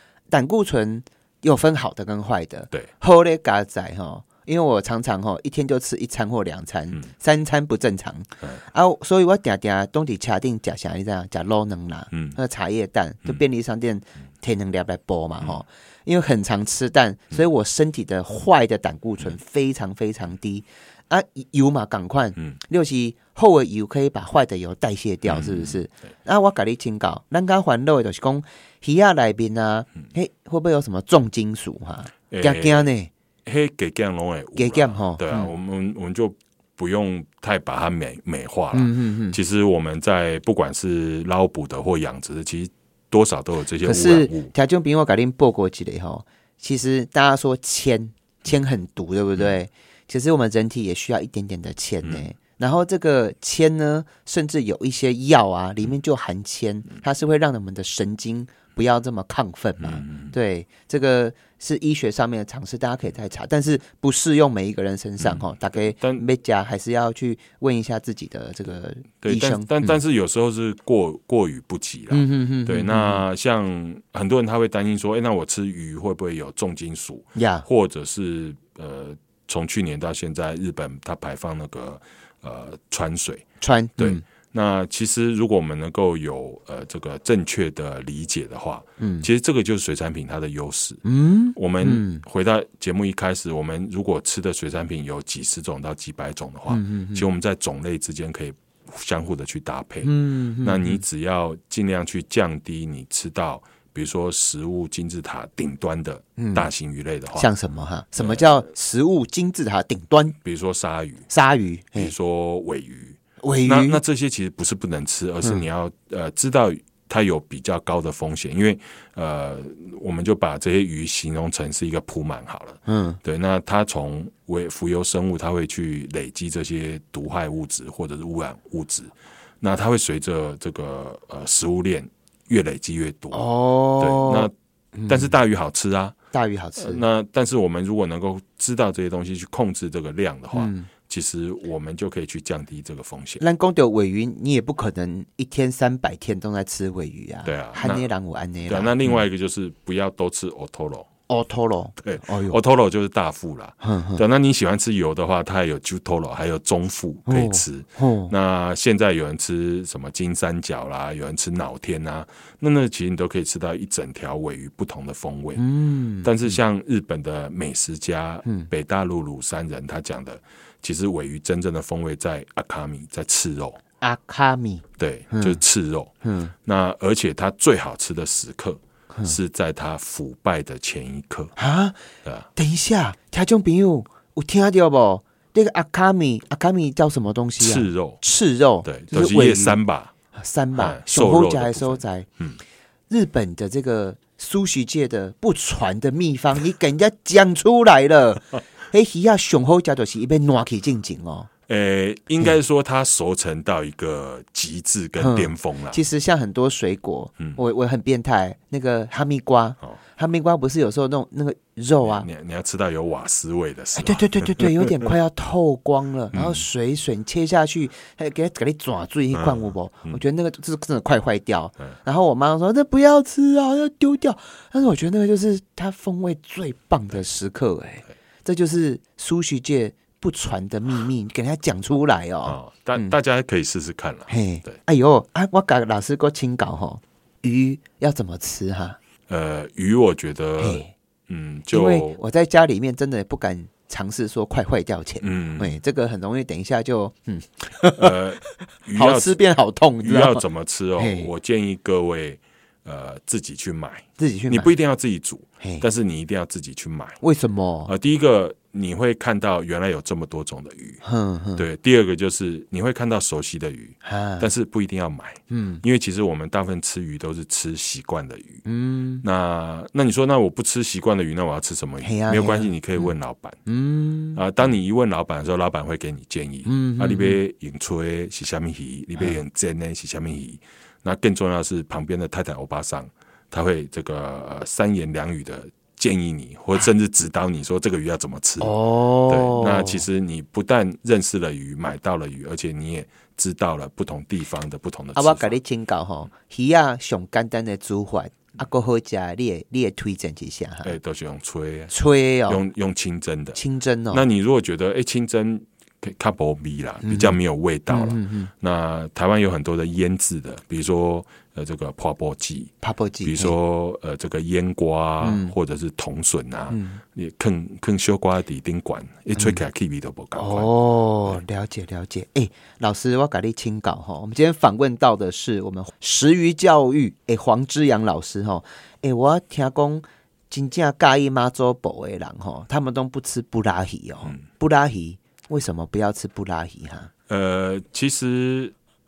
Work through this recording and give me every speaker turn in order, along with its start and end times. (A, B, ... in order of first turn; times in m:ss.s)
0:00.3-0:33.1 A
0:12.1-0:12.4 B
0:25.3-0:25.8 B
0:32.3-0:32.9 B
0:33.4-0:44.5 B
0:34.6-0:35.5 A
0:38.7-0:39.4 A
0:43.8-1:10.0 A
0:59.8-1:00.3 B
1:05.2-1:06.2 B
1:09.2-1:23.4 B
1:12.1-1:13.2 A
1:17.4-1:17.7 A
1:23.6-1:24.2 A
1:24.0-1:31.0 B
1:29.0-1:29.3 A
1:31.0-1:32.2 A
1:31.6-1:47.5 B
1:36.7-1:37.2 A
1:40.0-1:41.0 A
1:46.4-1:46.7 A
1:47.4-1:50.4 A
1:48.2-1:48.7 B
1:50.4-1:51.3 B
1:51.3-1:52.1 A
1:52.0-2:13.5 B
1:53.4-1:54.0 A
2:02.9-2:03.2 A
2:13.3-2:15.3 A
2:14.0-2:14.5 B
2:15.1-2:16.2 B
2:16.3-2:17.0 A
2:16.8-2:23.4 B
2:20.5-2:20.9 A
2:23.4-2:29.0 A
2:27.4-2:28.1 B
2:28.7-2:31.1 B
2:31.3-2:32.6 A
2:32.0-2:45.6 B
2:33.8-2:34.2 A
2:37.3-2:38.3 A
2:45.6-2:46.5 A
2:46.2-2:53.8 B
2:54.0-2:55.6 A
2:55.0-2:56.1 B
2:56.2-2:56.5 A
2:56.6-3:01.6 B
3:01.6-3:02.0 A
3:02.6-3:09.8 A
3:07.6-3:08.2 B
3:08.8-3:10.1 B
3:10.3-3:12.3 A
3:10.8-3:12.6 B
3:13.1-3:21.5 A
3:21.7-3:26.0 B
3:25.2-3:32.3 A
3:32.0-3:35.1 B
3:34.0-3:53.1 A
3:36.3-3:36.6 B
3:39.3-3:40.2 B
3:52.4-3:54.8 B
3:54.3-3:59.0 A
3:59.3-4:02.2 B
4:00.6-4:00.9 A
4:01.7-4:10.4 A
4:05.2-4:05.8 B
4:08.0-4:09.4 B
4:10.0-4:17.2 B
4:11.0-4:11.3 A
4:14.2-4:14.7 A
4:17.2-4:17.9 A
4:17.9-4:21.0 B
4:21.0-4:21.6 A
4:21.6-4:28.6 B
4:24.0-4:24.5 A
4:25.5-4:25.8 A
4:28.7-4:29.2 A
4:29.2-4:33.6 B
4:32.0-4:33.1 A
4:33.7-4:34.4 A
4:34.3-4:55.5 B
4:36.7-4:37.4 A
4:48.6-4:50.0 A
4:55.2-5:00.9 A
5:00.8-5:01.9 B
5:01.9-5:02.6 A
5:02.5-5:03.6 B
5:03.6-5:04.2 A
5:04.1-5:20.7 B
5:07.0-5:07.4 A
5:07.9-5:08.5 A
5:12.8-5:13.5 A
5:15.2-5:15.5 A
5:16.7-5:17.0 A
5:20.4-5:37.1 A
5:37.3-5:38.7 B